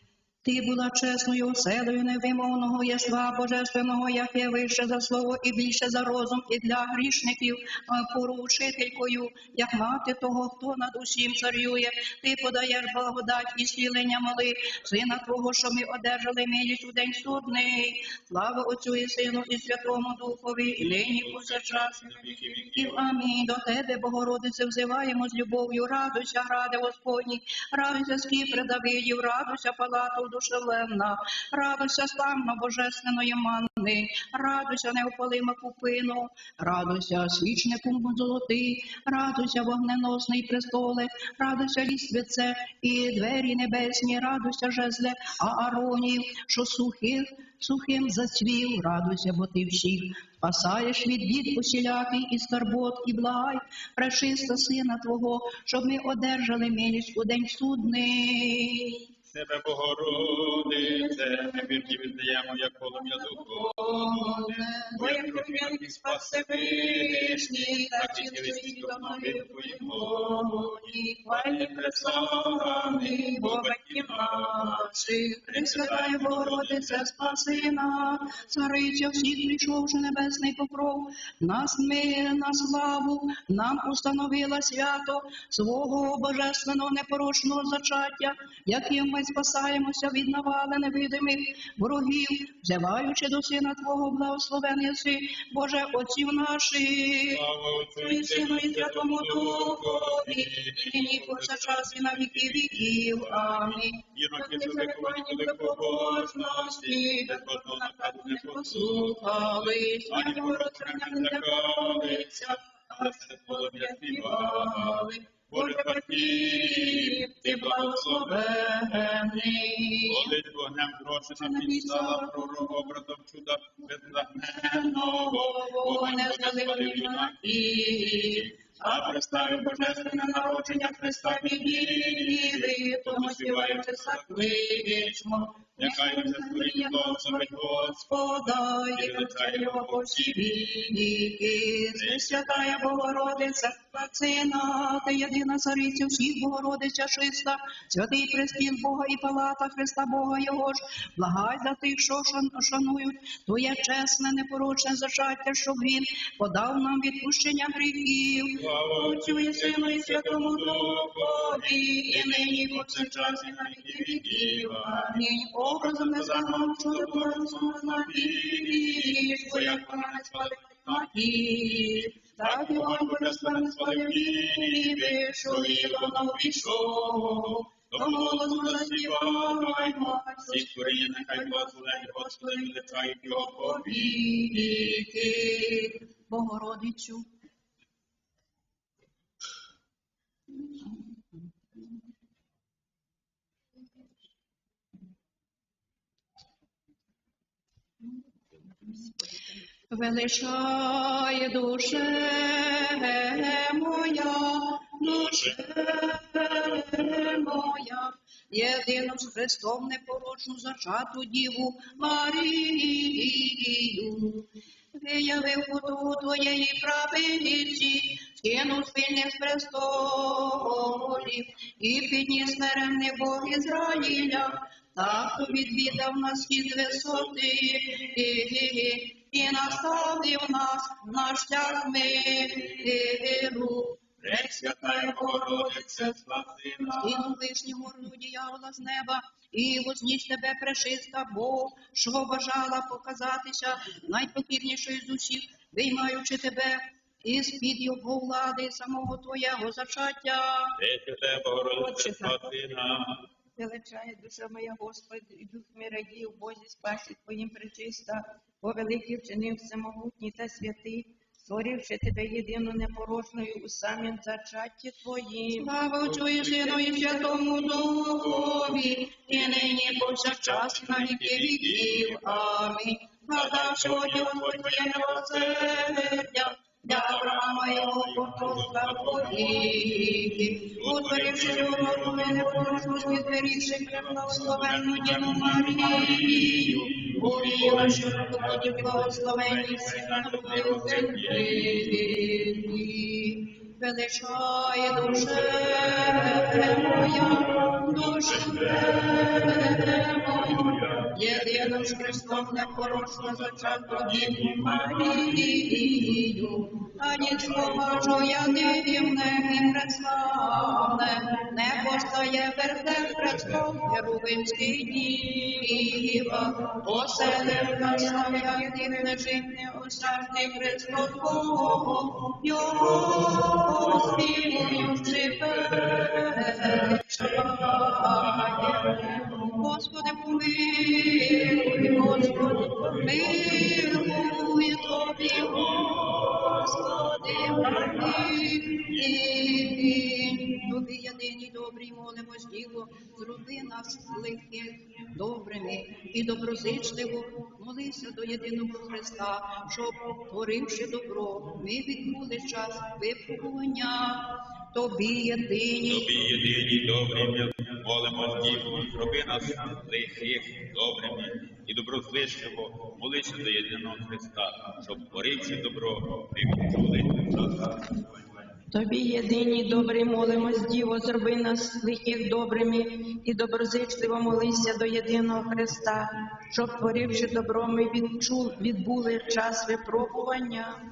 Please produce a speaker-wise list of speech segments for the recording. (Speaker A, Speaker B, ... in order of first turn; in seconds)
Speaker A: 0.5-59.0, 60.8-61.9, 63.0-120.3, 121.4-122.7, 124.3-187.3, 199.9-236.1, 237.0-250.8, 265.6-356.1
Speaker B: 20.8-23.0, 59.3-77.1, 97.3-119.3, 120.1-135.2, 135.8-138.4, 138.9-140.7, 142.0-143.7, 158.6-185.3, 205.1-205.6, 234.2-237.3, 250.8-253.2, 269.3-269.6, 270.4-272.5, 273.4-276.2, 276.9-279.9, 280.8-292.1, 296.0-306.2, 307.3-308.1, 322.9-329.2, 331.2-339.3, 355.9-368.0
Speaker C: 251.8-252.4, 253.6-267.5, 368.7-380.8